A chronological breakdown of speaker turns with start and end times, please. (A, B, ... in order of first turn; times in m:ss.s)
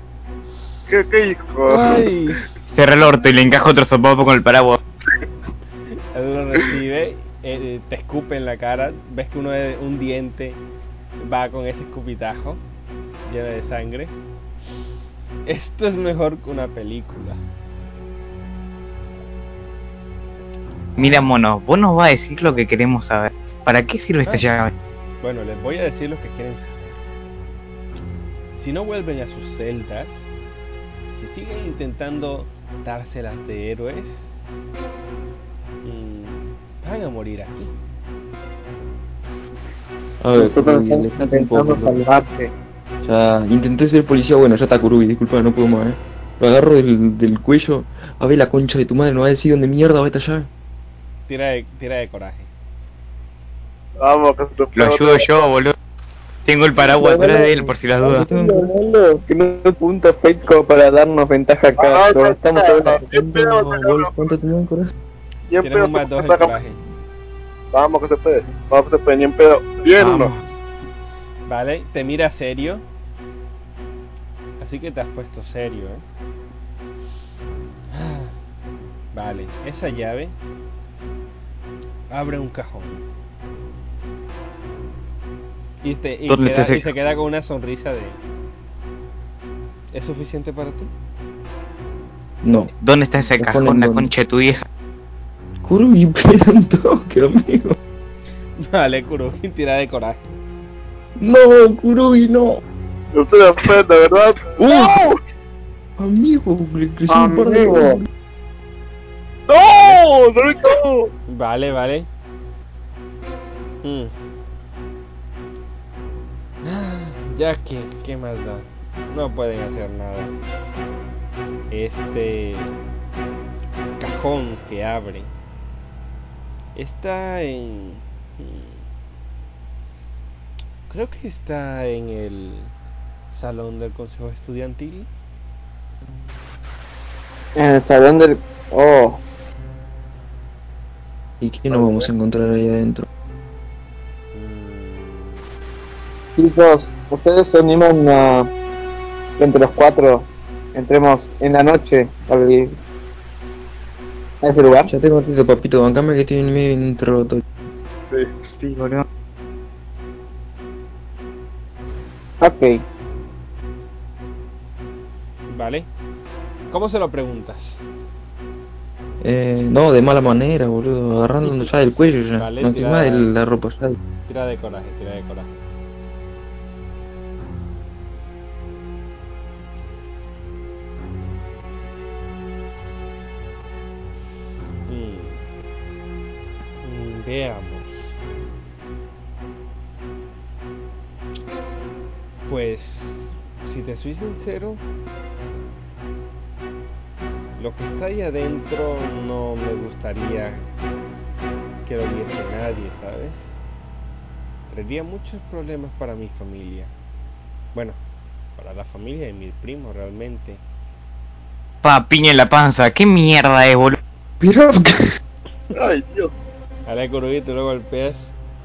0:00.9-0:02.1 A
0:01.7-0:02.5 B
0:02.7-0:04.8 C
0:06.1-0:10.6 B
0:11.2-0:12.6 B
0:13.3-0:14.2 B
0:15.5-0:17.4 B
0:21.0-0:24.7 C
0:25.2-0:27.0 B
0:28.6-0:30.4 B
0:31.1-0:34.4 B
0:35.8-0:37.7 B
0:40.2-0:42.0 D
0:40.4-0:42.5 E
0:43.0-0:50.5 D
0:51.3-0:52.5 B
0:54.0-0:55.5 A
0:54.8-0:55.8 C
0:56.5-0:58.2 C
0:56.8-1:03.0 E
0:57.1-0:58.7 D
1:01.8-1:04.1 A
1:03.1-1:04.9 D
1:05.5-1:06.5 A
1:05.6-1:06.8 B
1:07.7-1:10.3 A
1:10.0-1:10.4 C
1:11.5-1:12.8 B
1:14.6-1:16.0 B
1:17.9-1:18.4 B
1:19.1-1:20.4 B
1:22.1-1:23.0 B
1:25.8-1:28.2 B
1:26.3-1:26.8 C
1:29.9-1:30.9 B
1:32.4-1:32.7 D
1:32.8-1:34.7 C
1:33.4-1:34.1 D
1:35.6-1:37.8 D
1:38.6-1:40.4 B
1:41.2-1:42.6 D
1:43.1-1:45.2 A
1:44.6-1:45.0 D
1:46.0-1:48.1 D
1:47.1-1:48.0 E
1:49.5-1:51.1 A
1:49.5-1:50.0 B
1:51.3-1:52.1 B
1:53.8-1:54.1 B
1:56.6-2:00.3 B
2:01.7-2:02.8 B
2:04.0-2:05.3 B
2:06.8-2:08.8 B
2:10.9-2:12.7 B
2:13.3-2:15.1 B
2:17.6-2:19.2 E
2:21.4-2:23.1 D
2:21.7-2:22.1 A
2:24.3-2:25.4 B
2:26.4-2:28.5 E
2:29.4-2:32.7 E
2:34.4-2:34.9 E
2:34.9-2:37.4 D
2:38.1-2:38.4 A
2:38.6-2:39.1 C
2:42.4-2:42.8 E
2:45.5-2:45.9 B
2:46.7-2:47.8 B
2:49.2-2:54.0 D
2:52.4-2:53.3 B
2:54.3-2:55.6 B
3:04.9-3:05.4 B
3:06.8-3:08.2 B
3:12.5-3:14.8 B
3:17.6-3:20.7 B
3:21.8-3:23.6 B
3:24.7-3:26.9 B
3:27.7-3:28.0 B
3:28.6-3:30.6 B
3:31.8-3:34.0 C
3:34.4-3:35.1 D
3:35.7-3:36.3 A
3:36.9-3:38.4 B